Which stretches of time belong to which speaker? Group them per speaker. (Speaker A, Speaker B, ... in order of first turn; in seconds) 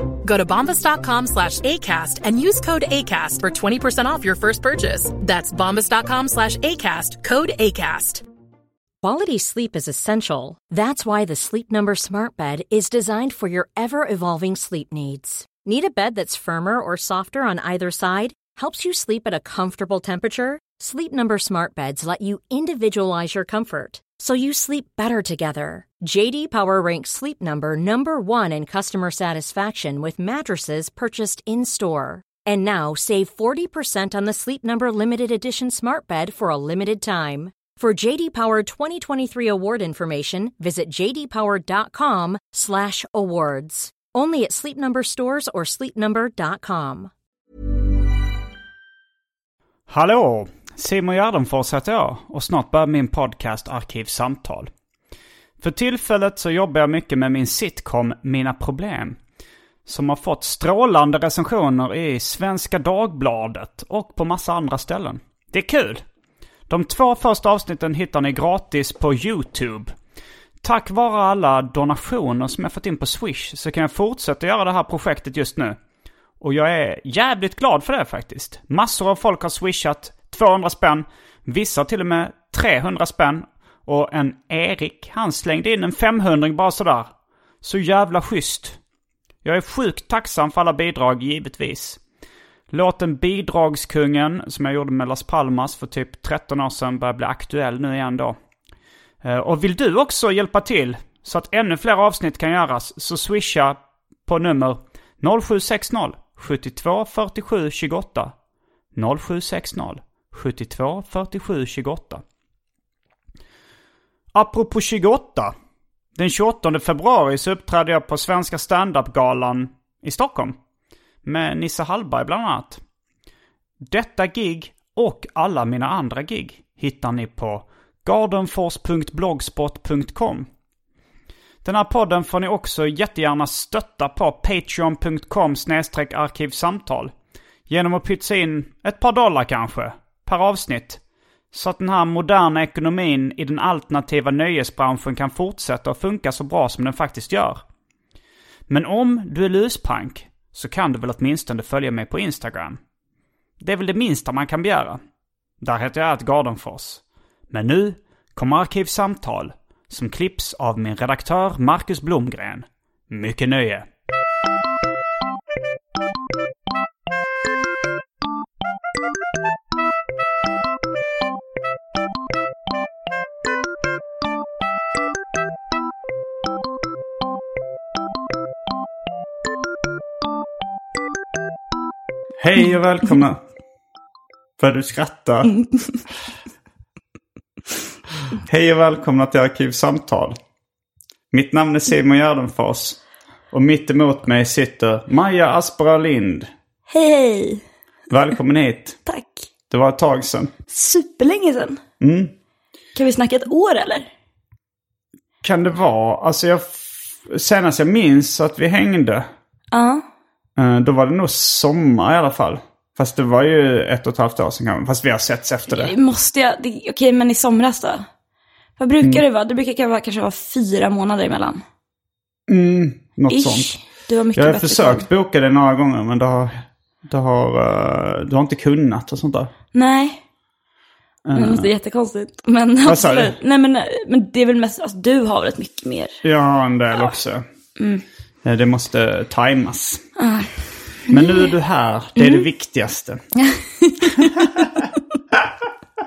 Speaker A: 0.2-8.2
Speaker B: 9.0-47.1
Speaker C: 49.9-54.7, 55.6-59.2, 59.9-66.0, 66.7-69.9, 70.6-75.8, 76.4-88.8, 89.4-92.0, 92.7-98.4, 99.2-108.3, 108.9-112.2, 114.3-115.5, 116.2-120.6, 121.2-122.8, 123.8-130.5, 131.6-137.1, 137.7-141.0, 141.5-147.6, 148.7-152.8, 153.6-155.0, 155.6-163.9, 182.4-183.4, 184.6-185.5, 188.4-190.3, 191.3-193.0, 193.5-196.5, 198.1-199.0, 199.7-200.5, 202.0-202.3, 205.4-209.3, 210.6-215.9, 222.5-223.7, 224.3-229.5, 231.2-231.7, 232.8-233.3, 236.2-237.4, 238.4-240.0, 241.1-243.2
Speaker D: 196.9-197.6, 199.1-199.5, 200.7-201.8, 202.9-204.1, 209.7-210.0, 215.7-218.0, 218.8-221.6, 223.3-225.0, 229.7-230.2, 231.3-236.1, 237.8-238.0, 240.2-240.5, 241.1-241.5, 242.2-242.4, 243.4-244.5